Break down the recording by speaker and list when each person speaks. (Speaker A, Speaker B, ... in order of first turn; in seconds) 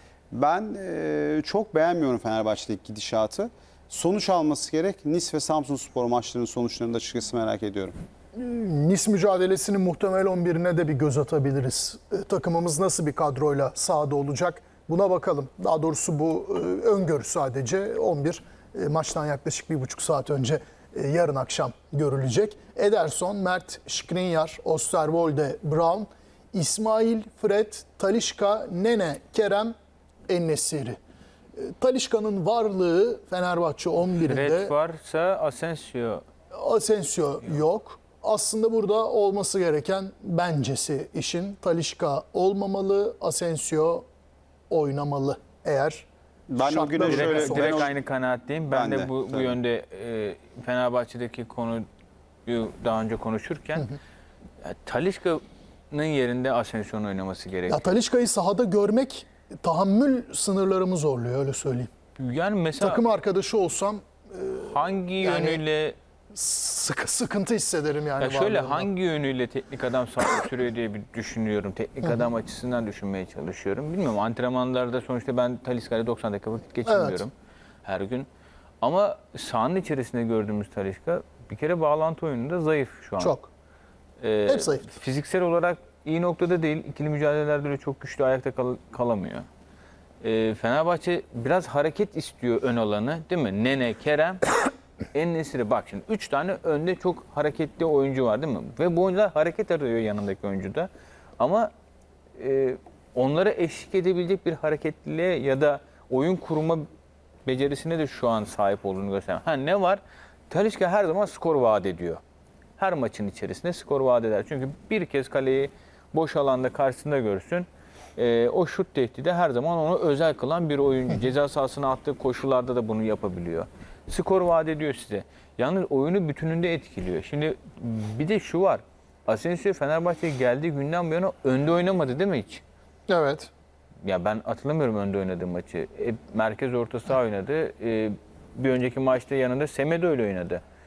Speaker A: 0.3-7.9, 46.5-47.9, 48.7-49.6
Speaker B: 8.3-29.8, 30.3-31.0, 31.6-34.7, 36.5-44.0, 44.7-46.1, 46.6-47.9, 57.7-61.9, 62.8-65.6, 66.3-68.9, 76.9-77.2, 83.2-83.5, 84.5-84.8, 133.1-133.5
Speaker C: 34.2-36.2, 47.0-51.9, 52.5-53.9, 54.6-57.9, 62.2-63.0, 64.6-66.0, 68.2-77.3, 77.8-78.3, 78.8-83.4, 84.2-89.5, 90.2-94.5, 95.1-101.7, 102.4-106.9, 107.5-112.2, 112.8-132.6, 134.0-140.6